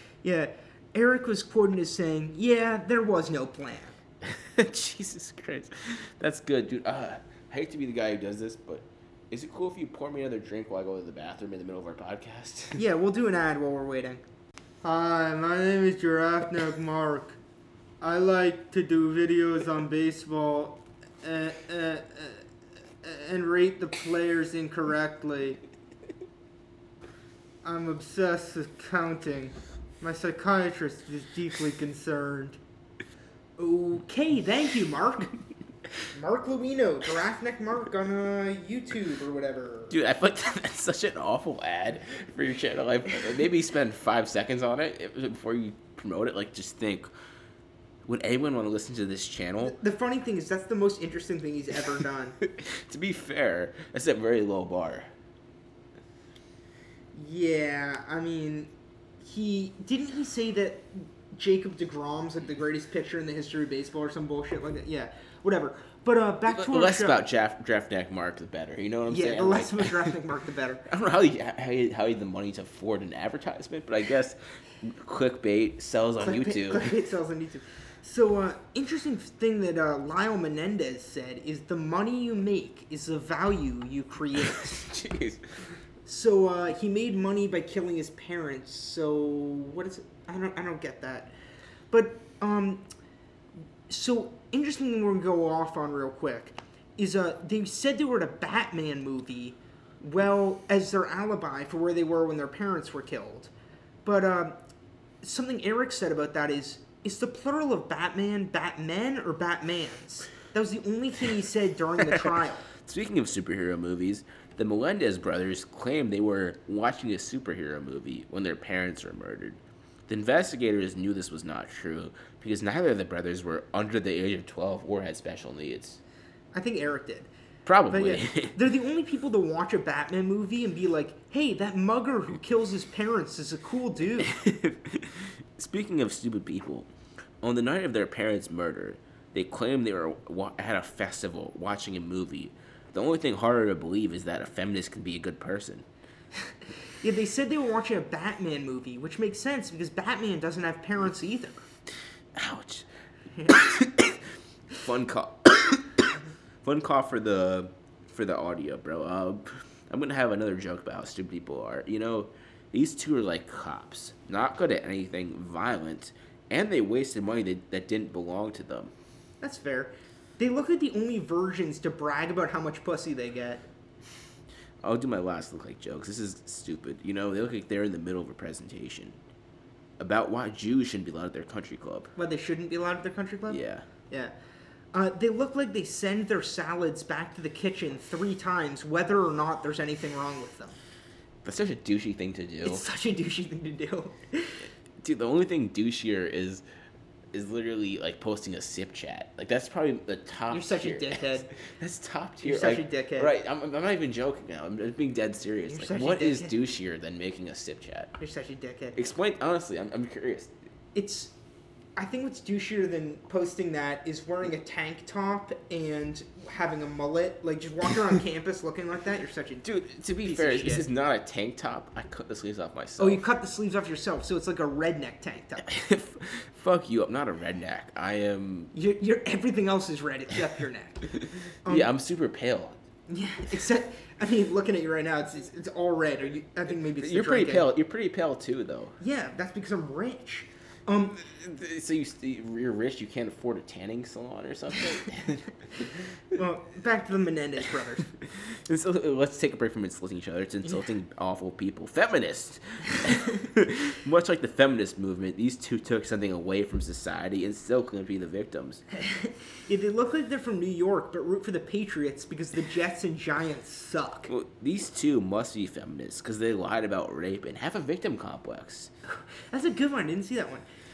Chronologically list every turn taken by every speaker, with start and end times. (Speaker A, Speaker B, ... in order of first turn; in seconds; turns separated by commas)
Speaker A: 0.2-4.0, Speaker B: 4.2-12.8, Speaker A: 12.8-14.2, Speaker A: 14.8-17.4, Speaker A: 18.0-22.4, Speaker A: 23.0-25.6, Speaker A: 27.6-32.6, Speaker A: 33.6-35.4, Speaker A: 36.1-40.0, Speaker B: 39.9-47.1, Speaker B: 48.0-49.8, Speaker A: 49.6-52.4, Speaker B: 52.4-55.1, Speaker A: 57.1-58.7, Speaker A: 59.2-67.3, Speaker B: 66.5-70.2, Speaker A: 69.1-70.8, Speaker B: 70.9-76.9, Speaker A: 76.2-84.9, Speaker B: 84.4-85.4, Speaker A: 86.1-91.3, Speaker A: 91.9-92.9, Speaker A: 93.9-103.5, Speaker A: 104.0-104.5, Speaker A: 105.2-112.7, Speaker B: 112.8-126.0, Speaker A: 126.5-127.3, Speaker B: 127.7-128.6, Speaker A: 127.9-134.4, Speaker B: 134.2-136.9, Speaker B: 137.4-145.9, Speaker A: 147.0-151.7, Speaker B: 152.3-152.9, Speaker A: 153.4-153.6, Speaker B: 153.5-154.2, Speaker B: 154.8-168.9, Speaker A: 169.4-173.7, Speaker B: 174.8-179.2, Speaker B: 180.0-182.1, Speaker A: 182.2-184.3, Speaker B: 183.5-183.8, Speaker A: 184.9-190.8, Speaker B: 191.4-192.8, Speaker A: 192.6-194.7, Speaker B: 195.0-196.6, Speaker B: 197.3-208.1, Speaker A: 200.5-201.5, Speaker A: 202.4-203.3, Speaker A: 205.7-206.5, Speaker A: 208.2-209.0, Speaker B: 208.9-210.5, Speaker A: 210.9-211.3, Speaker A: 212.0-219.7, Speaker B: 219.6-223.2, Speaker A: 220.2-220.9, Speaker A: 223.0-225.7, Speaker B: 225.6-228.7, Speaker A: 228.7-231.9, Speaker B: 231.7-232.8, Speaker A: 233.1-237.7, Speaker B: 236.9-239.0, Speaker A: 239.0-241.2, Speaker B: 241.2-246.1, Speaker A: 246.3-248.1, Speaker B: 248.2-258.8, Speaker A: 259.0-264.3, Speaker B: 264.3-268.9, Speaker A: 269.1-270.6